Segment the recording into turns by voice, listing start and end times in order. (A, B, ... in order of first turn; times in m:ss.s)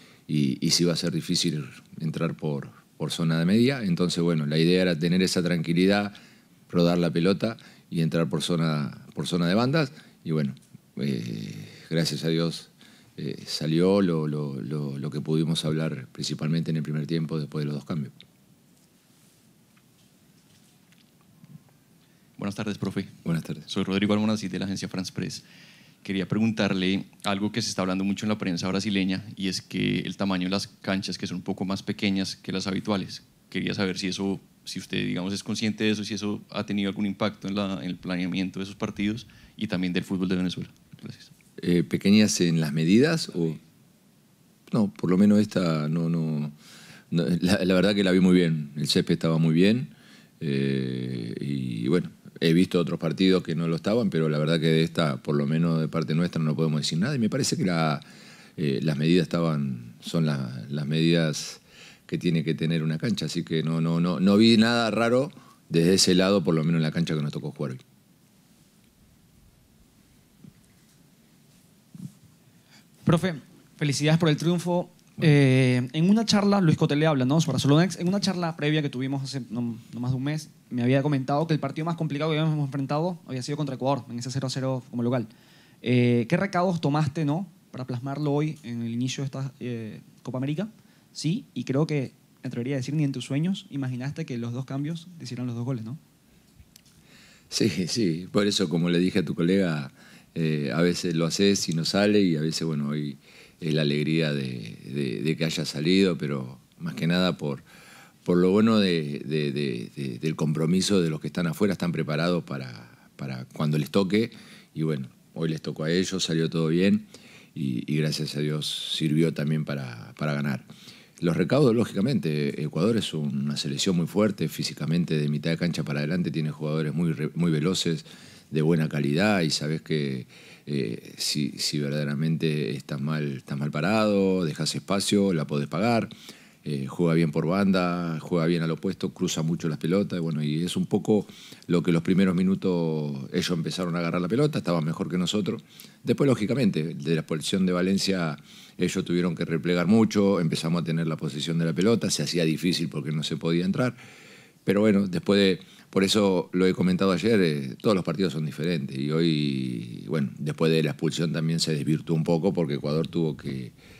0:00.3-0:06.1 A
0:06.7-0:18.1 A
0:22.4-0:25.4 B
0:23.2-0:23.6 A
0:26.0-0:41.3 B
0:41.6-0:43.6 A
0:44.7-0:46.5 A
0:47.1-0:58.0 A
0:58.6-1:07.8 A
1:13.0-1:25.3 C
1:25.8-1:36.0 C
1:37.5-1:47.6 A
1:48.2-2:00.7 A
2:01.2-2:16.1 A
2:16.6-2:34.0 A
2:34.6-2:43.7 A